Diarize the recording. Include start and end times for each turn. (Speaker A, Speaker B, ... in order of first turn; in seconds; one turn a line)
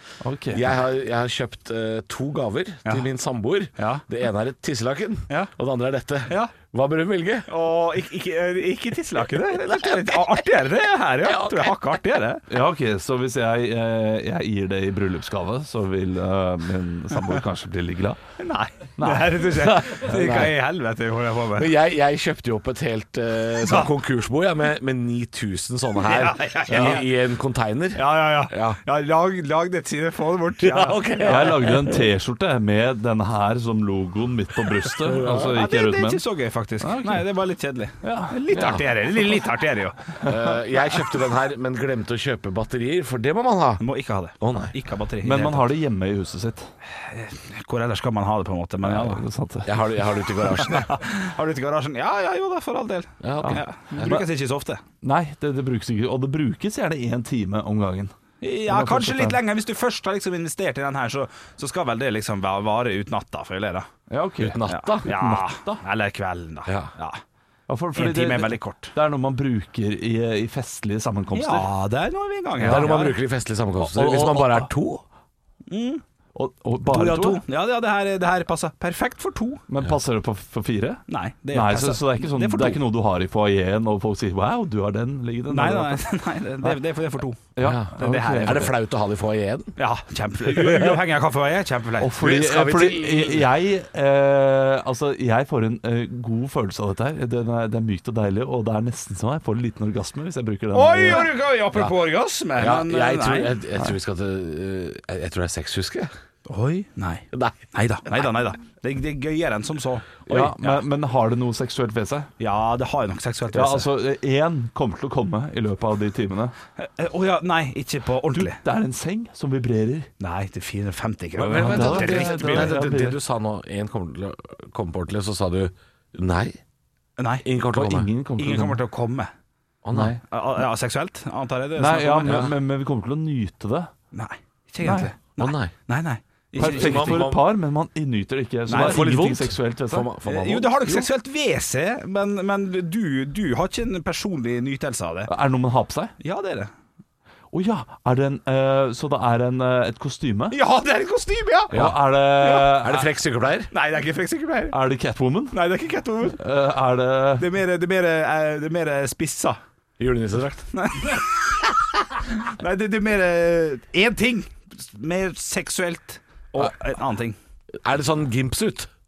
Speaker A: 0.2-0.6
Speaker B: 0.5-7.5
Speaker C: 3.8-4.0
Speaker C: 6.3-6.5
Speaker C: 7.5-12.4
Speaker B: 9.7-10.1
Speaker B: 11.2-11.8
Speaker A: 12.5-18.2
Speaker C: 18.4-21.7
Speaker A: 19.0-20.5
Speaker B: 20.1-20.5
Speaker B: 21.5-28.8
Speaker C: 23.6-23.9
Speaker C: 26.0-27.1
Speaker A: 26.7-27.0
Speaker C: 27.9-31.7
Speaker B: 30.6-32.0
Speaker A: 31.2-36.2
Speaker B: 35.0-35.6
Speaker C: 35.2-40.3
Speaker A: 36.8-37.3
Speaker A: 38.0-38.4
Speaker B: 38.5-38.8
Speaker B: 40.2-43.8
Speaker C: 43.8-45.7
Speaker B: 44.4-44.7
Speaker A: 45.2-46.7
Speaker C: 46.9-49.2
Speaker A: 48.8-49.9
Speaker B: 49.6-50.9
Speaker C: 50.5-54.8
Speaker B: 53.2-54.2
Speaker A: 53.4-54.3
Speaker A: 55.0-58.1
Speaker C: 58.4-63.9
Speaker A: 58.7-59.4
Speaker A: 64.1-65.8
Speaker B: 64.4-65.1
Speaker C: 64.7-67.2
Speaker B: 66.7-66.9
Speaker A: 67.7-71.7
Speaker C: 67.9-68.9
Speaker C: 71.3-73.2
Speaker A: 72.6-72.9
Speaker B: 72.6-75.0
Speaker A: 73.8-74.7
Speaker C: 75.7-76.0
Speaker A: 76.3-77.4
Speaker C: 76.9-79.6
Speaker A: 79.7-86.1
Speaker C: 81.1-82.8
Speaker C: 85.5-87.4
Speaker A: 87.5-88.7
Speaker B: 87.6-89.8
Speaker C: 87.9-88.7
Speaker C: 89.8-93.4
Speaker A: 90.6-90.9
Speaker A: 92.0-101.3
Speaker C: 100.7-103.6
Speaker B: 102.6-106.1
Speaker C: 106.5-110.8
Speaker B: 107.3-107.6
Speaker B: 110.3-110.5
Speaker A: 110.3-112.3
Speaker C: 112.4-113.9
Speaker A: 113.5-116.5
Speaker C: 116.8-118.6
Speaker A: 118.4-120.1
Speaker C: 120.2-122.8
Speaker B: 121.3-126.6
Speaker A: 121.5-123.2
Speaker C: 127.2-127.5
Speaker B: 127.4-128.1
Speaker A: 127.7-128.8
Speaker C: 128.4-129.3
Speaker B: 129.8-130.2
Speaker A: 129.9-130.2
Speaker C: 130.3-132.5
Speaker A: 131.8-133.9
Speaker B: 132.2-132.5
Speaker C: 134.1-137.3
Speaker A: 134.8-135.1
Speaker B: 135.4-135.7
Speaker B: 136.6-137.4
Speaker A: 136.6-140.1
Speaker C: 138.7-139.1
Speaker B: 138.7-141.1
Speaker C: 140.2-145.3
Speaker A: 145.3-146.1
Speaker C: 146.2-146.7
Speaker A: 147.5-150.6
Speaker C: 150.5-151.8
Speaker A: 151.7-153.1
Speaker B: 151.7-153.7
Speaker C: 152.4-152.8
Speaker C: 153.7-154.8
Speaker A: 154.7-155.6
Speaker C: 155.5-156.4
Speaker A: 156.4-157.5
Speaker C: 157.4-159.6
Speaker B: 160.0-160.6
Speaker C: 160.7-167.4
Speaker B: 167.8-168.9